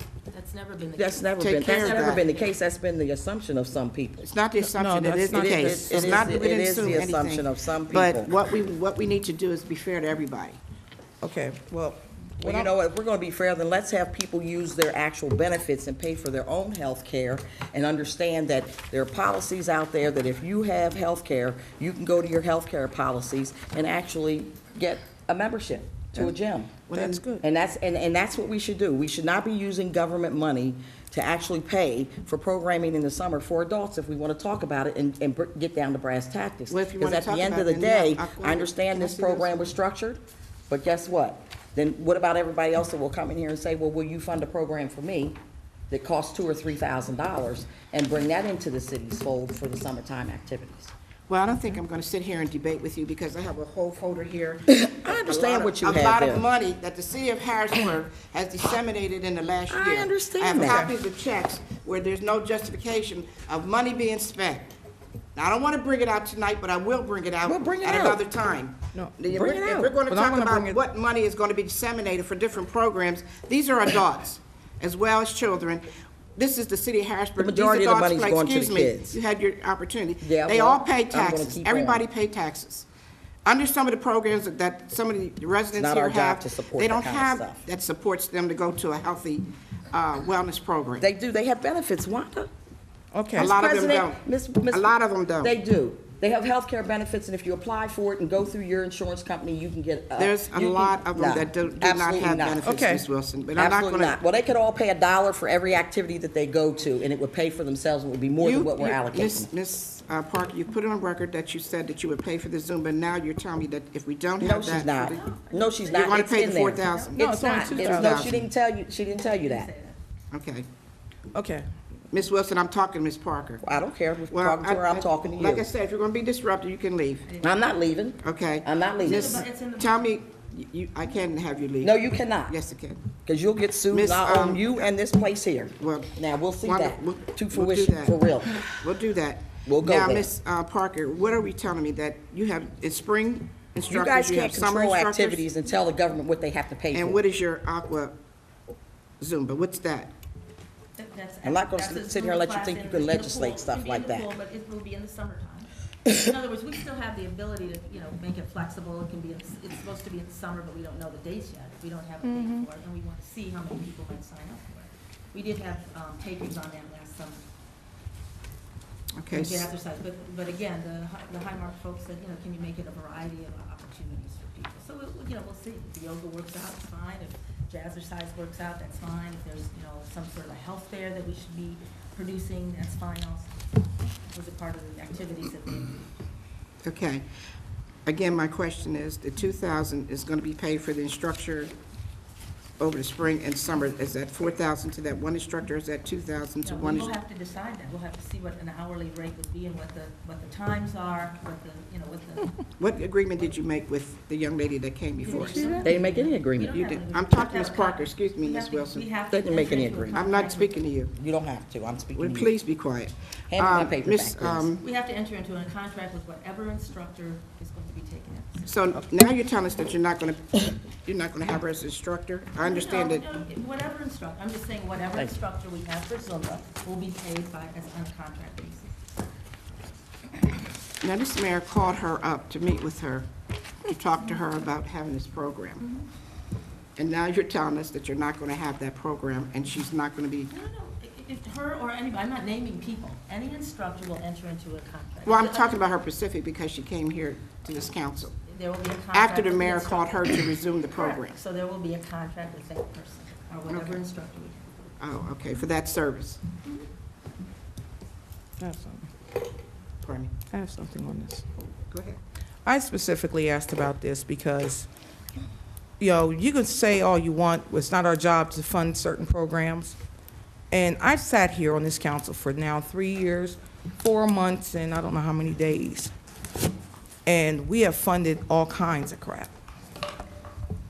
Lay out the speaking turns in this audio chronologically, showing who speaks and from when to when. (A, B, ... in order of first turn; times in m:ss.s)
0:00.3-0:02.5 A
0:01.0-0:04.3 B
0:01.4-0:02.2 C
0:04.2-0:10.6 C
0:04.6-0:06.2 D
0:05.3-0:08.3 B
0:11.2-0:12.7 D
0:12.4-0:26.9 B
0:26.9-0:27.2 C
0:26.9-0:27.4 D
0:27.4-0:45.4 B
0:36.7-0:39.7 C
0:45.9-0:50.9 B
0:51.3-1:04.7 C
0:54.7-0:56.4 B
0:59.7-1:00.9 B
1:00.6-1:00.9 D
1:05.4-1:22.9 C
1:07.4-1:08.2 B
1:08.9-1:10.8 D
1:09.3-1:09.9 B
1:17.4-1:19.2 B
1:20.2-1:22.0 B
1:23.4-1:31.0 C
1:25.8-1:27.6 B
1:31.0-1:32.5 B
1:33.1-1:33.6 D
1:33.4-1:35.6 C
1:33.4-1:42.7 B
1:40.2-1:44.2 C
1:42.6-1:43.0 D
1:43.6-1:49.5 B
1:48.4-1:55.2 C
1:54.4-1:59.7 B
1:55.0-1:57.9 A
1:55.9-1:58.5 C
1:57.2-1:58.3 D
1:59.3-2:00.0 A
2:00.3-2:00.6 C
2:01.3-2:01.7 D
2:02.1-2:03.6 C
2:03.6-2:05.7 B
2:04.3-2:07.3 C
2:07.3-2:07.7 A
2:07.4-2:09.4 B
2:08.2-2:13.0 C
2:09.0-2:10.1 A
2:11.8-2:12.6 B
2:13.2-2:18.6 B
2:13.9-2:14.9 C
2:15.8-2:25.4 C
2:19.6-2:20.3 B
2:23.9-2:27.2 B
2:26.9-2:28.1 C
2:29.2-2:30.1 C
2:31.0-2:47.4 A
2:31.4-2:34.3 B
2:42.2-2:42.7 D
2:49.1-2:49.7 C
2:49.3-3:03.5 A
3:04.3-3:06.0 A
3:06.8-3:07.2 C
3:08.1-3:11.7 C
3:12.8-3:17.1 C
3:16.6-3:22.6 A
3:22.8-3:25.8 C
3:25.2-3:30.9 A
3:25.4-3:25.9 D
3:25.8-3:26.8 B
3:26.6-3:29.1 C
3:29.3-3:30.2 B
3:30.1-3:31.1 C
3:31.2-3:32.5 B
3:32.1-3:34.8 C
3:33.5-3:34.7 B
3:34.8-3:38.6 A
3:38.6-3:43.3 C
3:42.6-3:49.0 A
3:51.0-3:53.3 C
3:53.8-3:55.8 C
3:57.0-4:00.5 C
4:00.5-4:05.8 A
4:05.2-4:08.3 C
4:08.4-4:14.7 A
4:09.1-4:11.4 C
4:13.7-4:14.0 C
4:15.0-4:16.4 C
4:18.6-4:19.1 D
4:20.0-4:20.4 C
4:20.5-4:21.4 D
4:21.9-4:22.2 C
4:22.6-4:24.9 D
4:26.0-4:30.0 D
4:30.7-4:36.1 D
4:37.2-4:39.5 D